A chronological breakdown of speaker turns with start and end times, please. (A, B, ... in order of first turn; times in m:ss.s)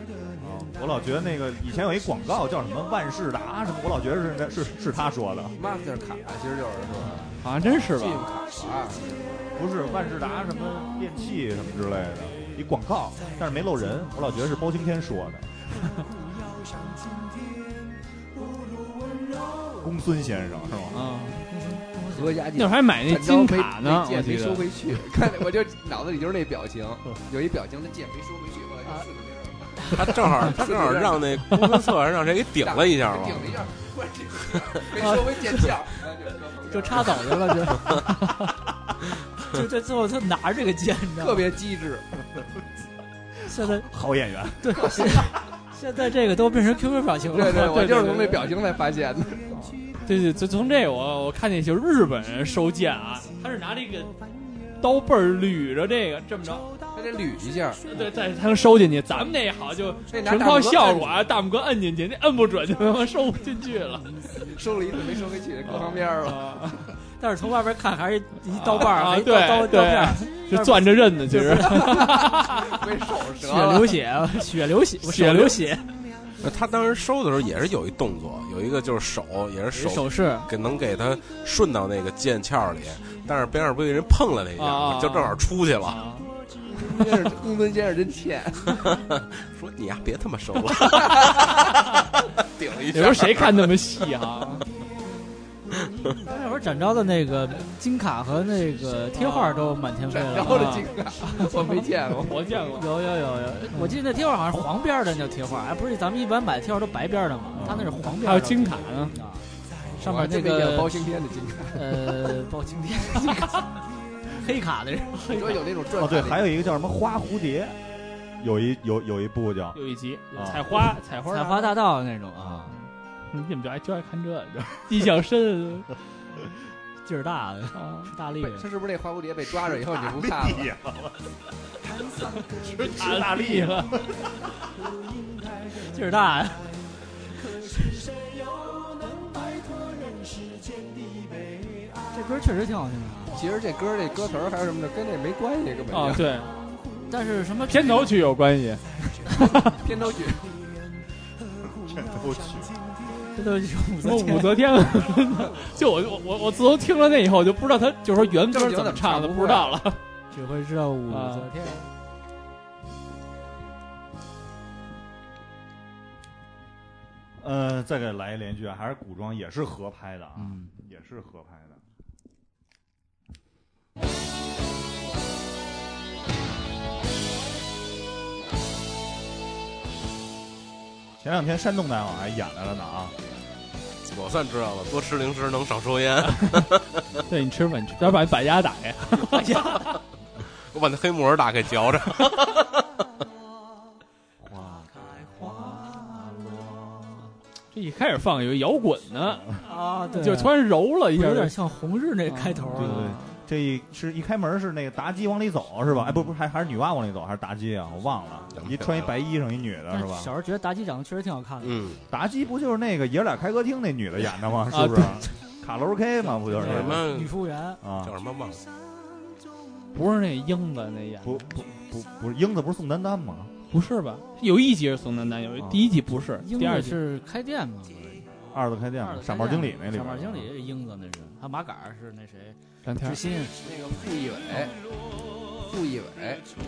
0:00.4-0:05.6 A
0:05.6-0:07.3 B
0:06.9-0:07.3 A
0:07.4-0:08.3 C
0:07.8-0:09.5 B
0:09.6-0:15.6 A
0:19.8-0:21.0 A
0:20.9-0:21.4 C
0:21.4-0:22.4 D
0:22.1-0:31.4 B
0:22.6-0:24.7 C
0:29.9-0:33.5 E
0:32.6-0:37.5 B
0:35.0-0:35.6 D
0:36.7-0:38.5 D
0:39.4-0:41.5 D
0:41.2-0:42.1 B
0:43.5-0:43.9 D
0:43.5-0:45.3 A
0:44.6-0:47.8 D
0:47.3-0:49.5 B
0:47.6-0:48.5 C
0:50.0-0:54.1 C
0:54.8-0:56.7 C
0:56.9-0:57.8 B
0:57.9-1:04.2 C
1:00.1-1:01.2 B
1:04.5-1:06.6 B
1:05.7-1:06.9 C
1:07.2-1:12.2 D
1:08.5-1:12.5 C
1:11.7-1:14.0 B
1:13.4-1:15.9 D
1:15.0-1:15.7 C
1:16.4-1:26.0 E
1:19.7-1:20.5 D
1:24.6-1:26.3 C
1:26.7-1:28.8 B
1:28.8-1:31.8 E
1:31.0-1:31.5 B
1:32.5-1:33.5 E
1:32.9-1:34.7 C
1:36.2-1:40.9 D
1:39.2-1:39.8 C
1:40.1-1:42.4 B
1:40.4-1:41.7 C
1:42.2-1:42.9 C
1:42.8-1:49.4 D
1:43.7-1:44.0 C
1:47.6-1:48.0 A
1:48.1-1:49.2 C
1:50.0-1:52.2 B
1:50.0-1:50.9 D
1:50.1-1:50.7 C
1:51.7-1:53.7 D
1:54.3-1:55.4 D
1:55.3-1:56.6 B
1:56.0-1:57.8 A
1:58.4-1:59.8 A
1:59.7-2:01.8 C
2:00.3-2:00.7 A
2:01.3-2:02.7 D
2:02.4-2:02.7 A
2:02.7-2:05.9 C
2:07.0-2:08.7 D
2:07.7-2:08.1 C
2:08.4-2:10.7 B
2:09.5-2:11.2 A
2:12.6-2:14.0 C
2:12.8-2:14.2 A
2:15.8-2:16.7 D
2:22.1-2:23.4 D
2:23.3-2:26.3 B
2:25.9-2:26.5 C
2:27.1-2:28.1 D
2:27.7-2:29.8 C
2:29.3-2:30.5 B
2:31.8-2:32.8 A
2:33.3-2:34.6 D
2:34.0-2:40.0 C
2:38.2-2:39.8 B
2:40.3-2:41.9 D
2:41.1-2:41.5 C
2:47.4-2:51.8 A
2:50.4-2:50.7 D
3:01.2-3:03.1 A
3:04.1-3:07.3 E
3:07.3-3:10.0 C
3:10.6-3:12.8 E
3:14.4-3:16.9 A
3:15.4-3:16.0 D
3:17.7-3:21.6 C
3:19.6-3:20.5 D
3:21.2-3:23.1 D
3:22.3-3:23.4 C
3:22.8-3:30.3 A
3:28.5-3:29.1 E
3:29.9-3:31.8 D
3:31.6-3:32.0 E
3:32.1-3:37.0 A
3:34.7-3:35.3 C
3:36.5-3:37.8 D
3:36.6-3:38.6 E
3:37.8-3:38.1 A
3:39.9-3:41.5 C
3:41.2-3:43.5 A
3:43.7-3:47.0 C
3:45.6-3:45.8 A
3:46.4-3:48.3 D
3:48.5-3:50.5 A
3:49.0-3:53.6 D
3:52.8-3:53.2 C
3:53.6-3:54.7 B
3:55.6-3:56.4 B